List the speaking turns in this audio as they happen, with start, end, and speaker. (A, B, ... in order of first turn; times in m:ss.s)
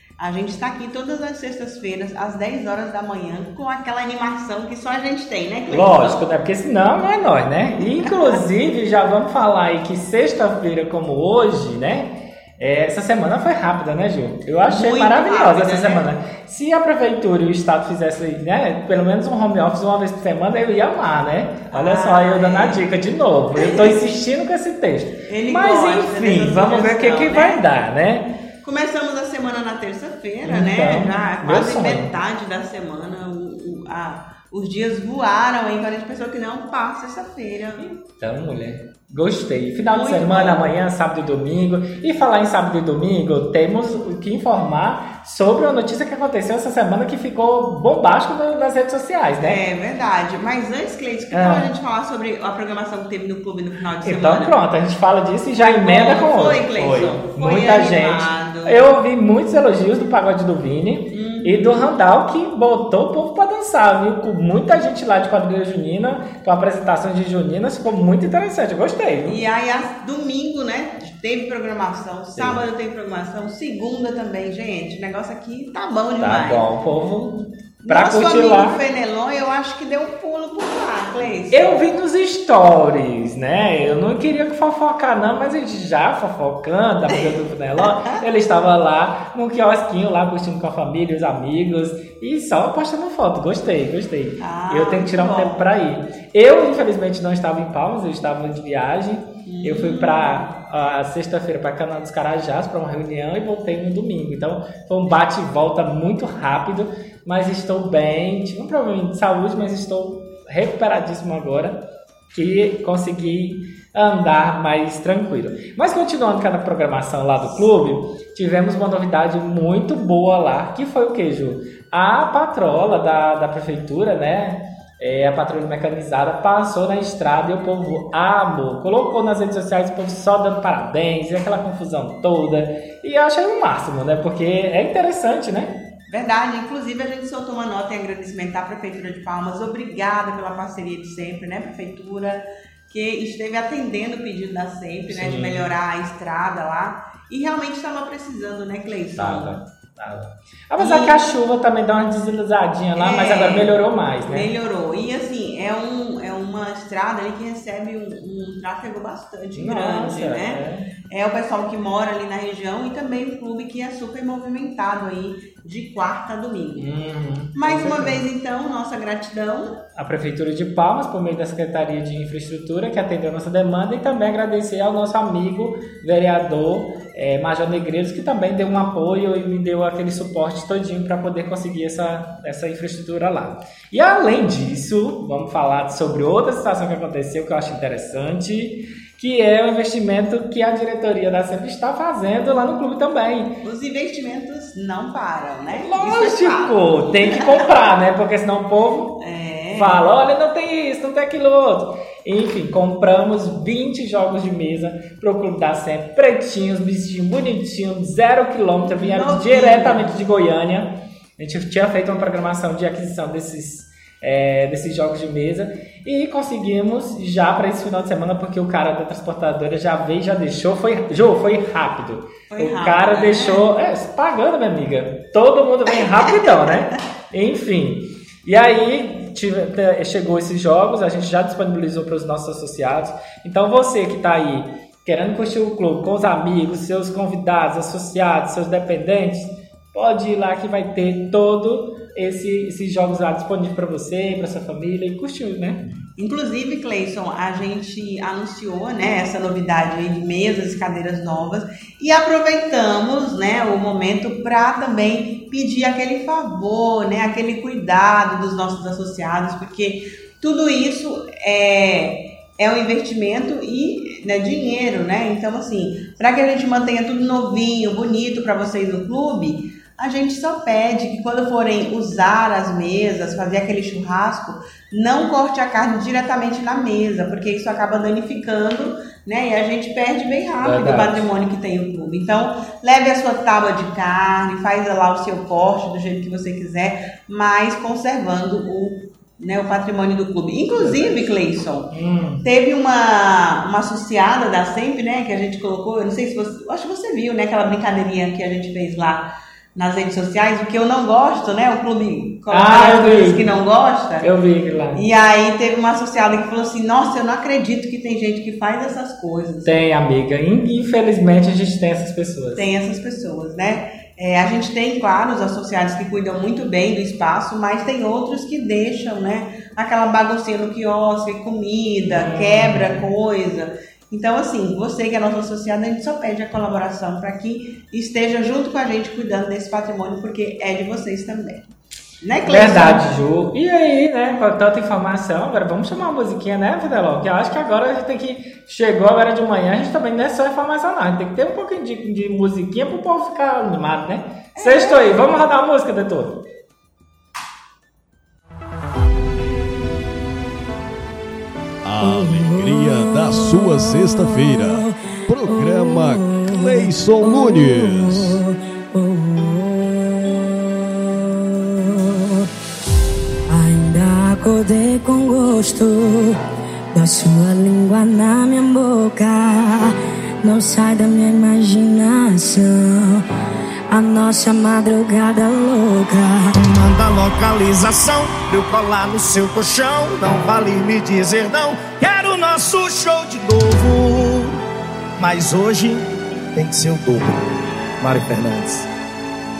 0:00.2-0:06.2 A
0:05.7-0:28.3 B
0:07.8-0:08.4 A
0:14.7-0:16.1 A
0:21.7-0:22.8 A
0:23.6-0:23.9 A
0:25.3-0:27.6 A
0:28.6-0:37.8 A
0:30.4-0:32.1 B
0:37.8-0:49.6 B
0:39.9-0:40.6 A
0:49.4-0:54.5 A
0:51.3-0:51.7 B
0:54.0-1:09.4 B
0:55.6-0:58.9 A
1:01.1-1:01.8 A
1:09.2-1:16.6 A
1:12.4-1:12.6 B
1:16.2-1:18.8 B
1:17.8-1:21.8 A
1:21.5-2:15.7 B
1:27.8-1:28.2 A
1:34.4-1:35.6 A
1:39.4-1:40.5 A
2:16.1-2:29.6 A
2:25.1-2:25.7 B
2:29.2-2:34.5 B
2:30.8-2:31.2 A
2:33.0-2:33.7 A
2:34.3-2:46.9 A
2:39.5-2:40.9 B
2:46.8-2:48.2 B
2:47.5-2:49.8 A
2:50.0-3:13.6 B
3:13.6-3:17.6 A
3:15.7-3:19.2 B
3:19.2-3:20.1 A
3:19.7-4:05.8 B
3:28.9-3:30.1 A
3:42.5-3:43.6 A
3:46.0-3:46.8 A
4:06.2-4:51.9 A
4:40.6-4:41.3 B
4:50.8-4:51.3 B
4:51.9-4:52.4 B
4:52.4-5:04.3 A
5:02.5-5:03.5 B
5:04.2-5:05.0 B
5:04.9-5:09.7 A
5:09.6-5:12.7 B
5:12.6-5:31.7 A
5:22.1-5:23.0 B
5:32.2-5:33.2 A
5:32.4-5:46.4 B
5:44.6-5:45.2 A
5:51.8-5:58.4 C
5:52.0-6:02.5 D
6:03.5-6:06.4 D
6:06.9-6:13.2 D
6:13.9-6:16.5 D
6:16.5-6:24.6 E
6:25.2-6:27.3 E
6:28.0-6:28.9 E